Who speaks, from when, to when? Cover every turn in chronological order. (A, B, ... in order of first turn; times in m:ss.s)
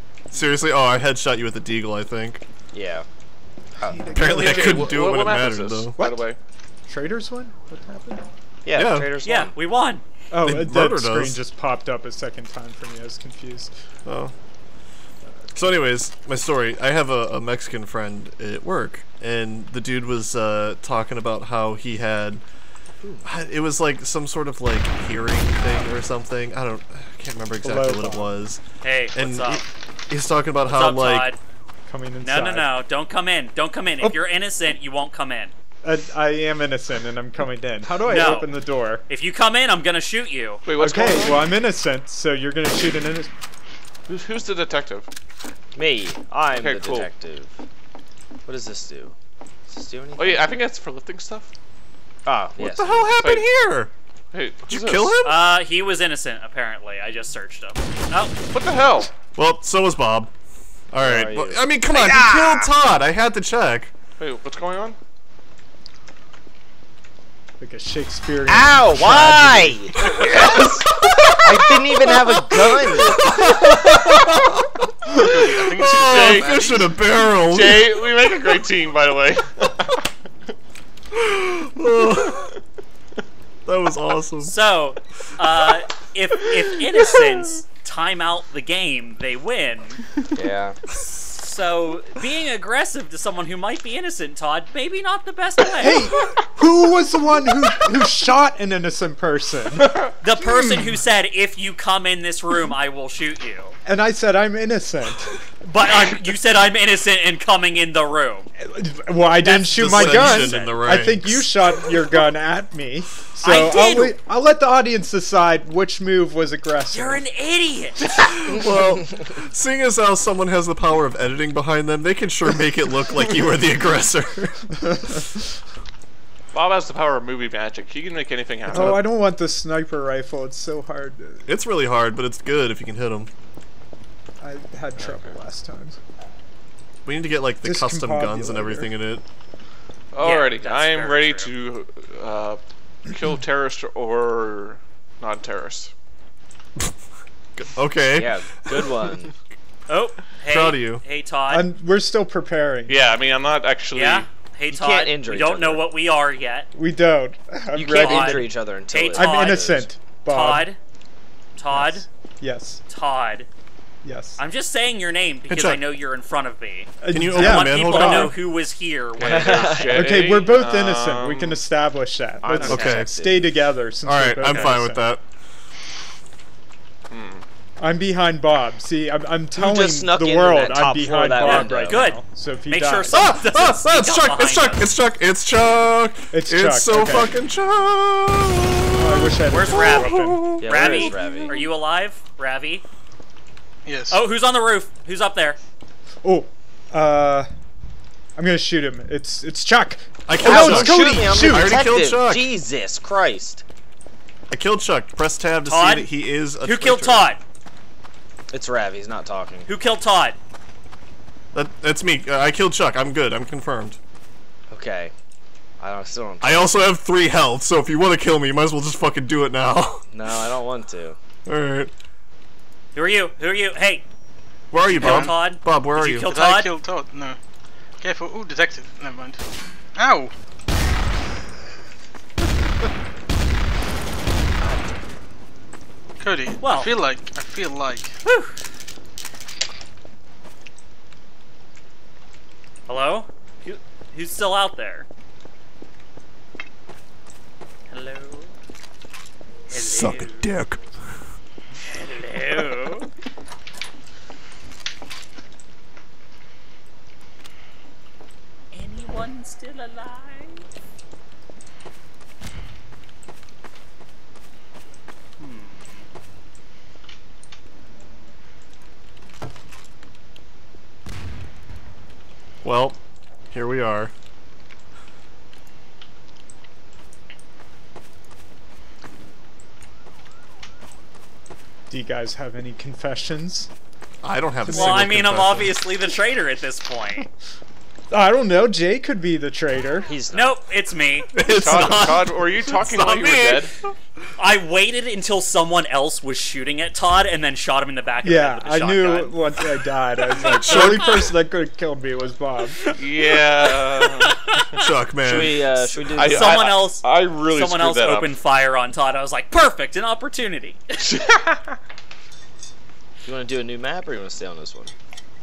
0:00.3-0:02.4 A
0:02.7-0:03.1 B
0:03.8-0:05.0 C
0:04.1-0:06.0 A
0:04.2-0:06.4 D
0:06.9-0:08.2 C
0:08.6-0:09.5 B
0:08.7-0:09.1 A
0:09.2-0:10.0 E
0:10.3-0:13.7 C
0:10.4-0:11.4 A
0:14.0-0:14.3 A
0:15.5-0:22.4 A
0:23.2-0:28.6 A
0:27.6-0:28.3 C
0:28.8-0:29.6 E
0:29.1-0:31.3 A
0:30.7-0:31.4 E
0:31.9-0:32.7 C
0:32.2-0:35.5 E
0:35.8-0:39.0 C
0:38.0-0:40.6 E
0:40.6-0:41.5 D
0:40.8-0:43.3 C
0:44.1-0:45.1 D
0:45.7-0:47.6 B
0:46.5-0:47.1 D
0:48.4-0:49.1 B
0:49.7-0:50.5 B
0:50.2-0:51.5 D
0:52.2-0:53.1 B
0:52.6-0:53.9 A
0:53.2-0:53.5 D
0:54.3-0:55.2 D
0:54.7-0:55.4 A
0:55.2-0:58.3 E
0:58.5-0:59.1 D
0:59.4-1:00.3 A
1:00.9-1:03.9 A
1:01.0-1:02.7 B
1:04.2-1:05.0 D
1:07.6-1:09.8 C
1:08.5-1:09.9 B
1:10.0-1:11.4 D
1:10.0-1:10.5 A
1:11.0-1:15.2 A
1:11.4-1:13.2 B
1:15.1-1:17.0 F
1:15.8-1:18.0 A
1:15.8-1:16.6 D
1:17.4-1:20.0 D
1:21.1-1:22.5 A
1:23.6-1:24.5 A
1:24.4-1:30.0 E
1:30.3-1:30.8 B
1:31.0-1:36.1 E
1:35.8-1:41.0 C
1:40.2-1:43.7 E
1:43.8-1:45.3 C
1:45.6-1:48.5 E
1:48.6-1:57.2 C
1:49.4-1:50.8 E
1:49.7-1:51.7 A
1:53.4-1:54.2 E
1:56.9-1:58.3 E
1:58.1-2:04.7 A
2:06.5-2:09.0 D
2:08.7-2:09.0 A
2:08.7-2:11.4 C
2:11.4-2:13.3 A
2:14.4-2:16.0 C
2:15.0-2:15.4 D
2:17.0-2:19.2 A
2:17.6-2:18.9 C
2:20.1-2:25.9 D
2:20.2-2:21.5 E
2:27.6-2:28.9 A
2:28.1-2:29.3 B
2:29.9-2:31.7 E
2:30.5-2:31.0 A
2:31.5-2:33.0 C
2:32.9-2:34.3 D
2:33.9-2:36.7 E
2:34.7-2:35.8 B
2:36.7-2:38.5 C
2:37.7-2:39.9 B
2:37.9-2:40.8 E
2:39.1-2:40.7 C
2:41.6-2:42.0 E
2:41.7-2:42.8 C
2:42.9-2:43.5 E
2:44.0-2:44.4 C
2:44.4-2:50.0 E
2:45.5-2:45.8 A
2:47.0-2:48.4 C
2:47.1-2:48.4 A
2:49.2-2:51.6 D
2:49.2-2:50.0 B
2:49.9-2:55.1 C
2:52.4-2:53.4 B
2:52.6-2:53.1 A
2:54.0-2:55.2 A
2:54.4-2:54.8 E
2:57.1-2:57.4 D
2:57.8-3:03.3 C
2:59.5-3:02.1 B
3:01.4-3:04.9 E
3:03.1-3:11.6 A
3:06.3-3:07.3 C
3:09.0-3:10.6 C
3:09.5-3:12.8 E
3:10.6-3:11.6 B
3:13.8-3:14.2 F
3:14.1-3:15.6 E
3:16.2-3:17.5 C
3:18.4-3:21.9 C
3:20.3-3:22.4 A
3:20.4-3:23.6 B
3:24.5-3:27.3 A
3:25.6-3:26.1 E
3:26.6-3:27.4 E
3:28.5-3:29.7 B
3:29.6-3:30.4 E
3:31.5-3:34.0 A
3:34.7-3:35.1 B
3:35.8-3:36.7 B
3:36.4-3:40.0 A
3:40.1-3:41.2 B
3:41.4-3:41.9 A
3:42.9-3:44.0 E
3:44.7-3:46.3 A
3:44.9-3:46.7 E
3:44.9-3:45.4 F
3:46.2-3:47.4 F
3:48.0-3:49.4 F
3:50.0-3:50.3 F
3:56.2-3:58.2 F
3:56.6-3:56.9 E
3:58.2-3:58.5 E
4:02.9-4:05.0 E
4:07.9-4:08.5 E
4:09.7-4:10.5 E
4:09.7-4:11.3 A
4:11.8-4:13.1 E
4:18.7-4:20.6 E
4:25.4-4:26.0 E
4:32.6-4:33.0 A
4:33.5-4:34.1 A
4:41.9-4:43.7 C
4:44.2-4:45.7 A
4:44.6-4:47.3 E
4:44.7-4:45.0 C
4:48.1-4:50.1 C
4:50.0-4:50.6 B
4:50.3-4:52.1 E
4:51.3-4:53.6 A
4:51.5-4:53.7 D
4:54.4-4:59.4 E
4:58.2-5:02.9 C
5:00.4-5:01.2 A
5:00.5-5:00.9 E
5:03.0-5:04.4 D
5:03.6-5:04.8 E
5:04.7-5:05.7 A
5:05.2-5:06.6 B
5:06.0-5:10.9 E
5:06.2-5:08.3 D
5:11.0-5:11.7 D
5:13.2-5:14.9 B